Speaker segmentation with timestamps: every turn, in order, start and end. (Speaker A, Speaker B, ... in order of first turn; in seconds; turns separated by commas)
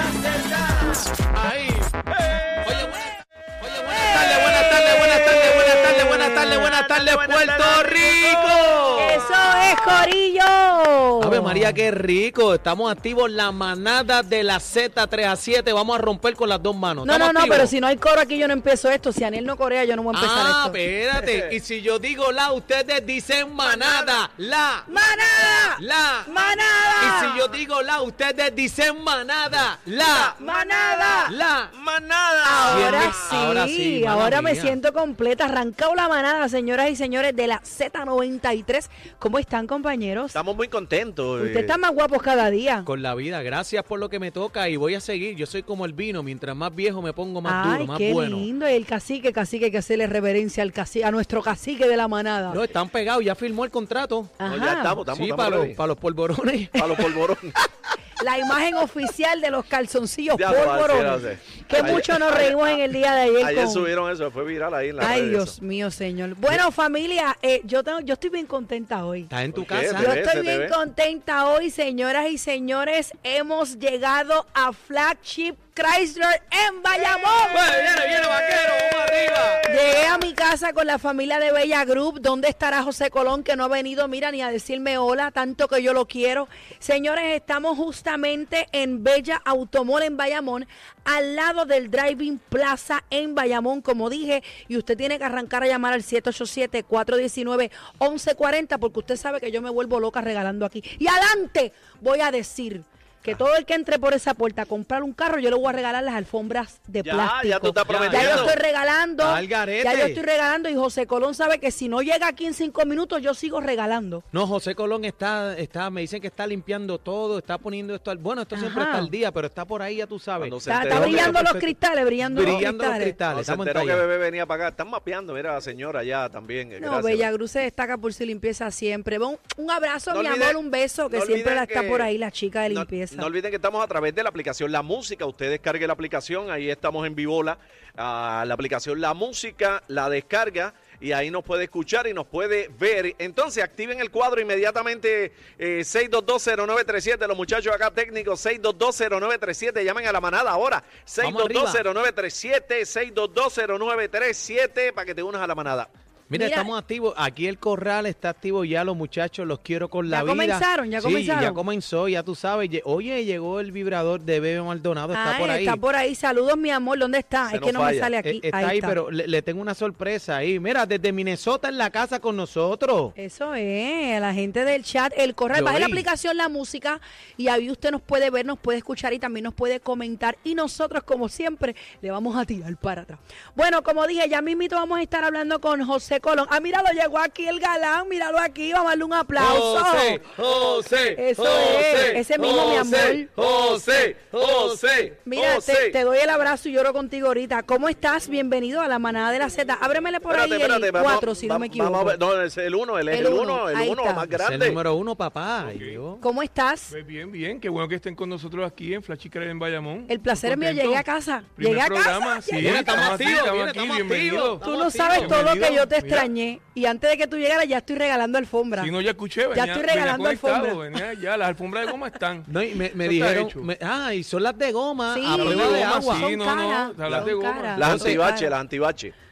Speaker A: 1.1-1.9, Speaker B: 2.1-2.6, Speaker A: 2.6-9.2, Speaker C: 3.9-5.8, Speaker B: 5.2-9.7, Speaker C: 8.9-11.7, Speaker A: 11.2-17.7, Speaker C: 17.0-20.8, Speaker A: 20.1-24.9, Speaker B: 21.2-21.5, Speaker B: 23.6-24.1, Speaker C: 24.9-27.6, Speaker A: 25.8-26.4, Speaker A: 27.0-30.3, Speaker B: 30.1-33.3, Speaker C: 30.4-31.3, Speaker A: 31.3-31.7, Speaker C: 32.4-40.4, Speaker A: 32.7-34.8, Speaker B: 40.3-41.8, Speaker C: 41.4-42.9, Speaker A: 42.8-48.5, Speaker C: 47.4-52.6, Speaker A: 52.5-54.4, Speaker C: 54.4-55.0, Speaker B: 54.4-55.8, Speaker A: 55.1-57.2, Speaker B: 56.8-57.6, Speaker C: 58.2-63.9, Speaker B: 60.3-62.8, Speaker B: 63.4-65.5, Speaker C: 65.0-69.3, Speaker A: 69.3-70.2, Speaker B: 69.5-70.7, Speaker C: 70.0-77.7, Speaker A: 77.5-79.7, Speaker C: 79.6-114.2, Speaker B: 107.0-108.5, Speaker A: 107.8-108.6, Speaker A: 109.2-110.2, Speaker A: 114.3-124.0, Speaker C: 118.5-119.1, Speaker B: 120.4-121.4, Speaker C: 120.7-123.2, Speaker B: 122.4-122.6, Speaker B: 123.3-127.3, Speaker C: 126.8-133.3, Speaker B: 130.1-132.1, Speaker B: 132.7-155.9, Speaker A: 151.2-151.8, Speaker A: 156.3-165.8, Speaker C: 156.3-156.7, Speaker C: 160.1-161.6, Speaker C: 165.1-169.0, Speaker B: 167.5-168.1, Speaker A: 168.2-173.1, Speaker C: 173.2-190.3, Speaker A: 175.5-176.1, Speaker A: 189.3-195.1, Speaker C: 191.1-193.3, Speaker B: 191.8-192.1, Speaker B: 193.3-196.0, Speaker C: 195.2-202.2, Speaker B: 200.3-204.8, Speaker C: 203.1-204.2, Speaker A: 204.3-206.2, Speaker D: 205.6-206.0, Speaker C: 206.2-206.9, Speaker D: 206.9-216.3, Speaker C: 210.1-213.2, Speaker A: 212.6-215.4, Speaker C: 214.6-218.9, Speaker D: 218.8-223.7, Speaker C: 219.5-221.0, Speaker A: 222.4-226.3, Speaker C: 225.1-228.5, Speaker D: 225.3-227.9, Speaker B: 227.1-229.1, Speaker A: 227.8-228.2